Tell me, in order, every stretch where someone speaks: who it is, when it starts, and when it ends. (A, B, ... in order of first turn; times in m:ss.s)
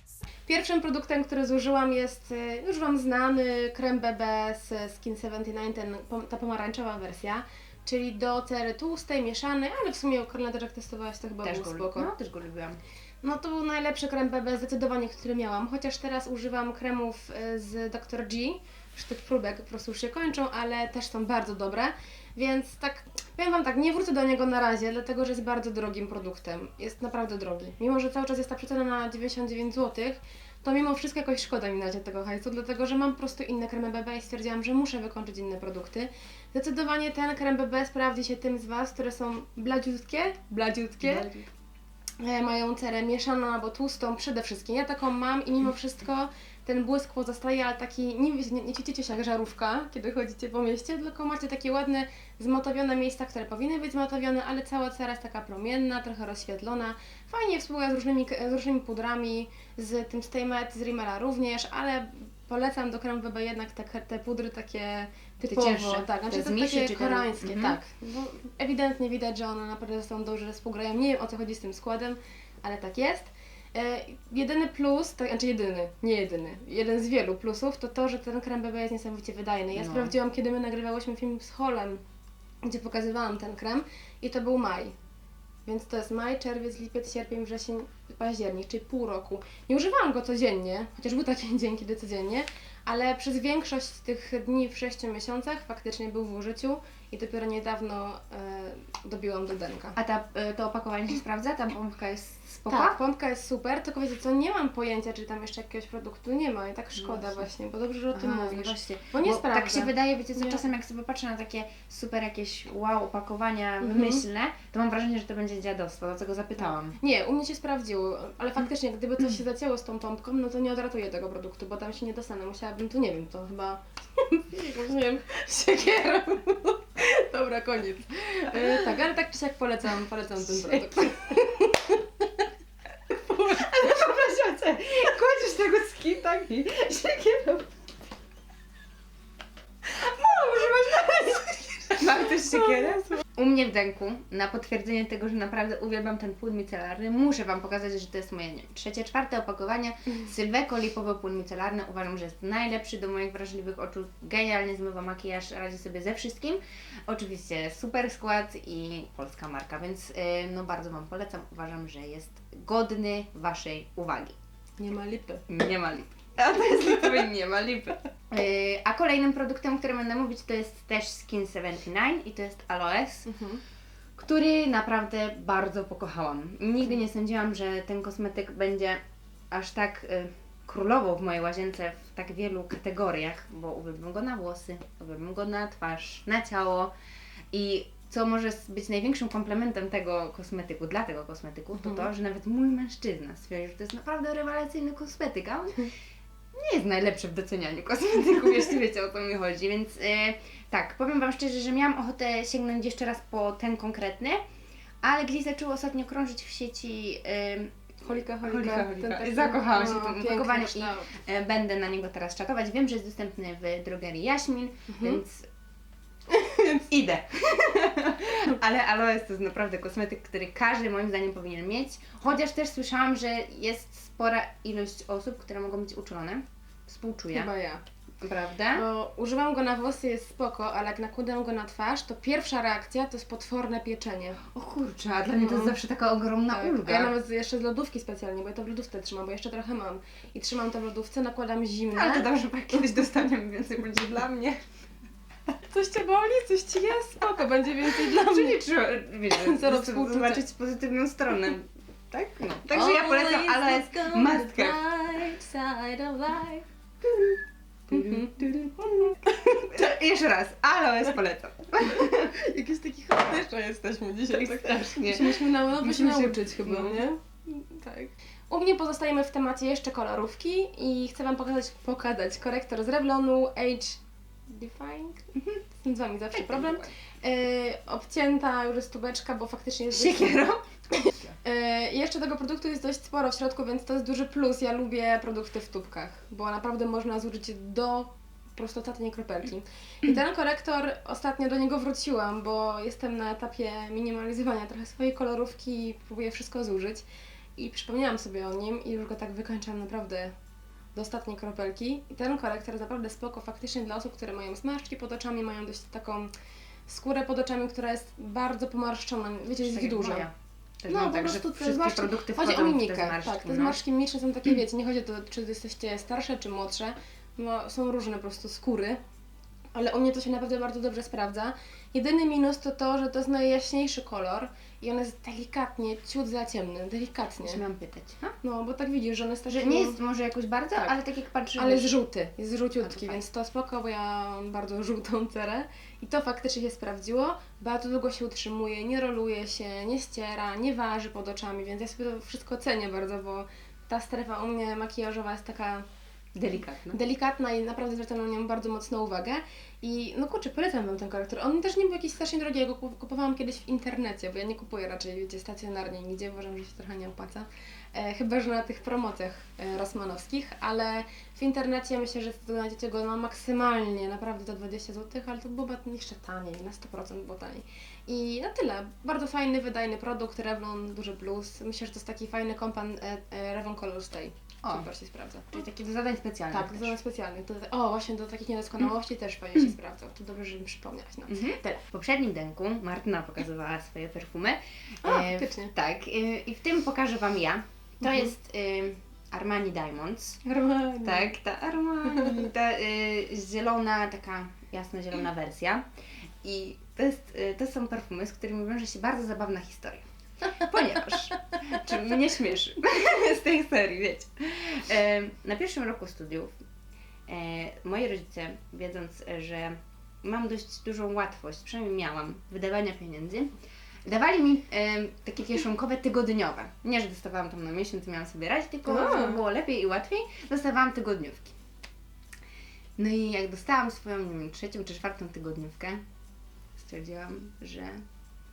0:00.5-0:12.1 A
0:11.4-0:12.8 B
0:13.2-0:41.3 A
0:41.0-0:41.4 B
0:42.2-1:22.0 A
1:05.4-1:07.8 B
1:19.7-1:20.1 B
1:22.6-1:25.0 A
1:25.6-1:40.0 A
1:39.9-1:43.0 B
1:42.7-1:50.6 A
1:47.0-1:47.4 B
1:48.1-1:57.0 B
1:53.8-1:54.2 A
1:57.0-2:12.2 A
2:10.6-2:11.2 B
2:13.2-2:17.7 B
2:20.2-2:21.8 A
2:20.2-2:44.4 B
2:44.8-2:45.4 A
2:45.5-2:53.3 B
2:53.2-2:53.6 A
2:54.2-3:06.9 B
3:07.5-3:15.9 B
3:16.5-3:24.4 B
3:25.0-3:27.8 B
3:28.0-3:31.1 A
3:28.4-3:35.5 B
3:34.9-3:35.2 A
3:36.3-3:36.9 A
3:36.9-3:47.5 B
3:47.3-3:47.8 A
3:48.2-3:48.8 B
3:48.7-3:54.4 A
3:54.5-3:57.1 B
3:55.4-3:55.8 A
3:56.5-4:03.0 A
4:01.9-4:04.6 B
4:05.7-4:08.6 A
4:07.9-4:14.8 B
4:09.3-4:10.4 A
4:12.7-4:16.6 A
4:17.9-4:22.3 B
4:17.9-4:19.8 A
4:22.3-4:57.0 A
4:24.3-4:27.0 B
4:36.3-4:36.9 B
4:39.9-4:41.4 B
4:57.6-5:00.3 A
5:00.9-5:06.3 A
5:06.9-5:10.3 A
5:09.6-5:10.3 B
5:10.8-5:13.8 B
5:10.9-5:19.0 A
5:19.7-5:27.6 A
5:27.4-5:28.3 B
5:28.4-5:30.0 A
5:29.5-5:31.9 B
5:31.5-5:45.8 A
5:32.8-5:33.2 B
5:46.3-5:47.0 B
5:46.9-6:15.6 A
6:14.6-6:14.9 B
6:15.5-6:17.0 B
6:16.5-6:21.8 A
6:21.3-6:30.4 B
6:25.0-6:25.7 A
6:30.4-6:31.3 A
6:31.0-6:35.8 B
6:32.1-6:32.3 A
6:36.4-6:46.5 B
6:47.3-6:53.5 B
6:54.0-7:01.5 B
6:58.9-6:59.4 A
7:03.0-7:06.0 B
7:06.8-7:08.0 B